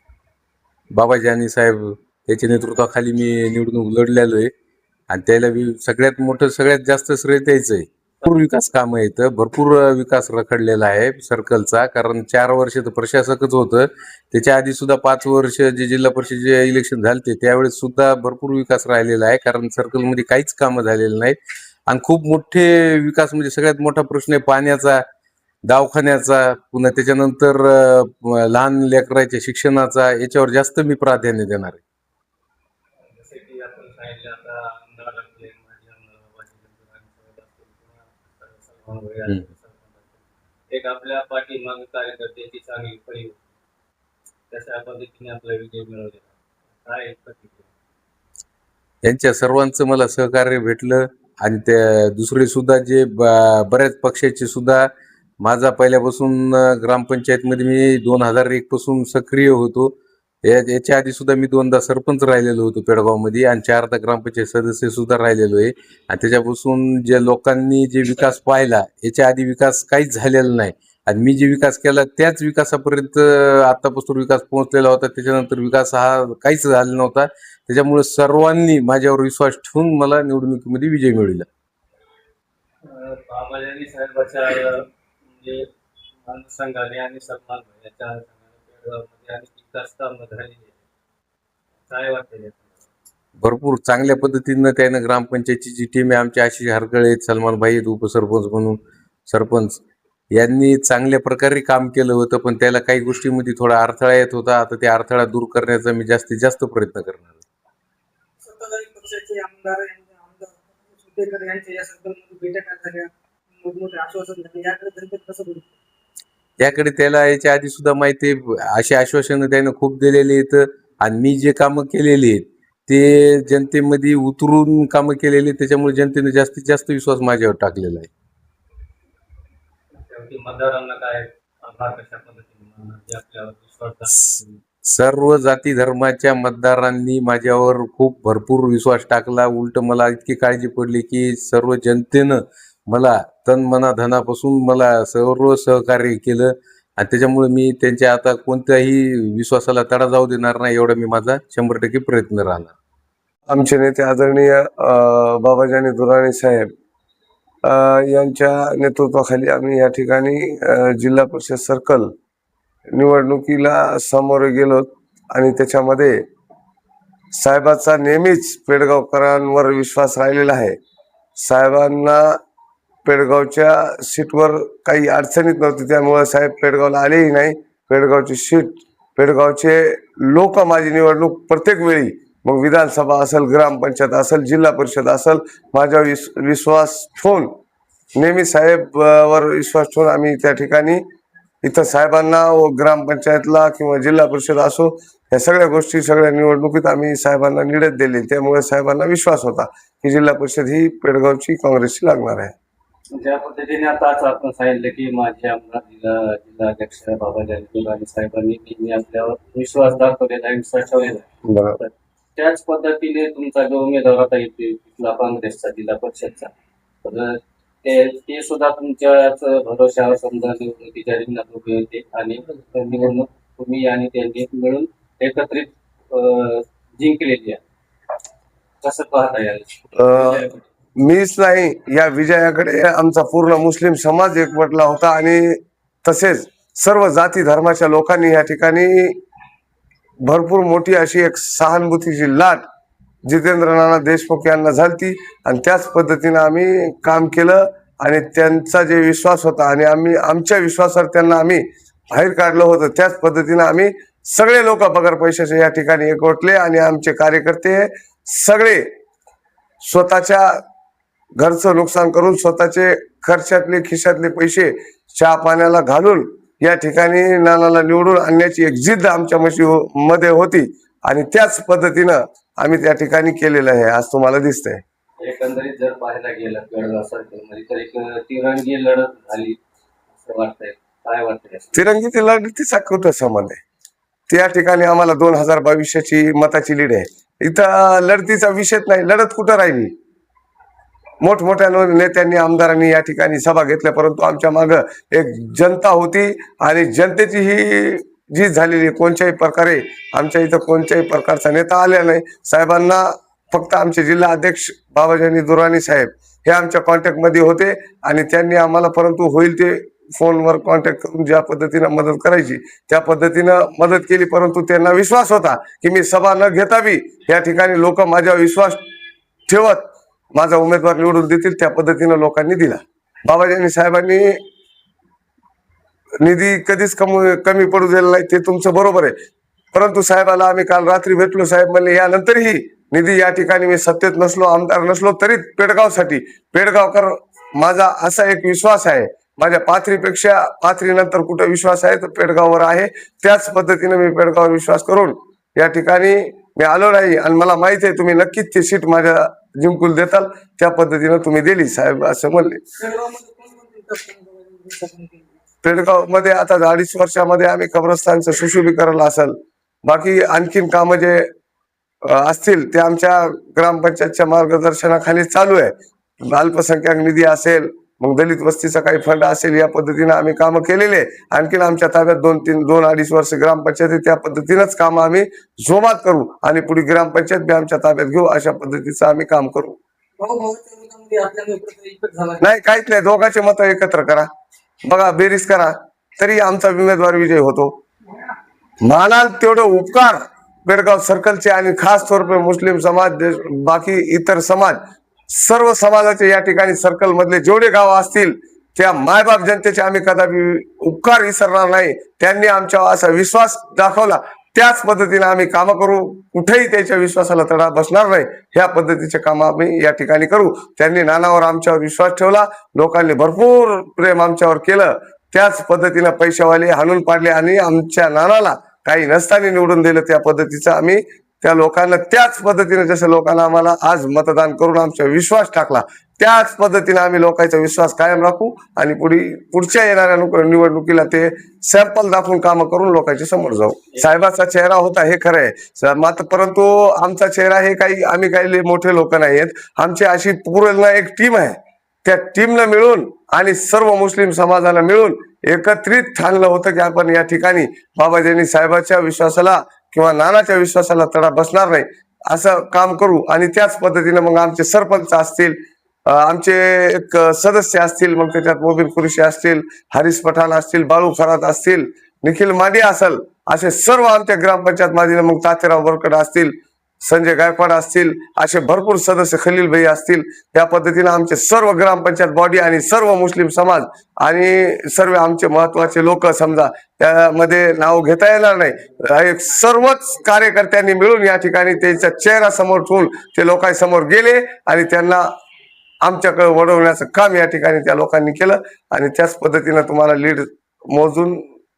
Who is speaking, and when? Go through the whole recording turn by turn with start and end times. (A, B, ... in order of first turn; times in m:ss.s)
0:00.9-0:04.5 A
0:05.1-0:21.4 A
0:21.9-0:25.0 A
0:25.6-0:31.8 A
0:33.0-0:43.5 B
0:44.5-0:47.7 B
0:49.0-0:54.9 A
0:55.4-1:21.4 A
1:22.8-1:25.7 B
1:26.2-1:30.8 B
1:31.8-1:32.9 B
1:33.4-1:39.8 A
1:40.3-1:47.4 A
1:48.4-1:55.7 C
1:56.6-2:08.1 A
2:10.0-2:14.6 B
2:14.9-2:32.7 A
2:33.5-2:36.7 D
2:37.6-2:42.1 D
2:42.9-2:46.2 D
2:47.3-2:50.8 D
2:51.4-2:52.4 D
2:53.0-3:07.5 D
3:08.2-3:11.0 D
3:11.6-3:22.5 D
3:23.1-3:31.3 B
3:31.4-3:31.8 D
3:31.8-3:36.5 B
3:37.0-3:47.6 B
3:48.8-3:50.7 B
3:50.0-3:50.4 D
3:51.0-3:59.2 D
4:00.2-4:02.6 D
4:03.2-4:18.9 D
4:19.8-4:20.6 D
4:21.4-4:34.8 D
4:35.2-4:39.6 B
4:40.1-4:41.7 B
4:41.7-4:43.6 D
4:44.3-4:49.9 D
4:51.2-5:18.8 D
5:19.5-5:24.4 D
5:26.2-5:29.1 D
5:29.7-5:52.6 D
5:52.8-5:55.4 C
5:55.6-6:01.3 D
6:02.0-6:05.7 D
6:06.2-6:19.8 D
6:20.2-6:22.4 C
6:22.4-6:24.3 D
6:24.9-6:27.7 D
6:28.8-7:35.6 D
7:36.1-8:05.3 D
8:06.0-8:11.4 D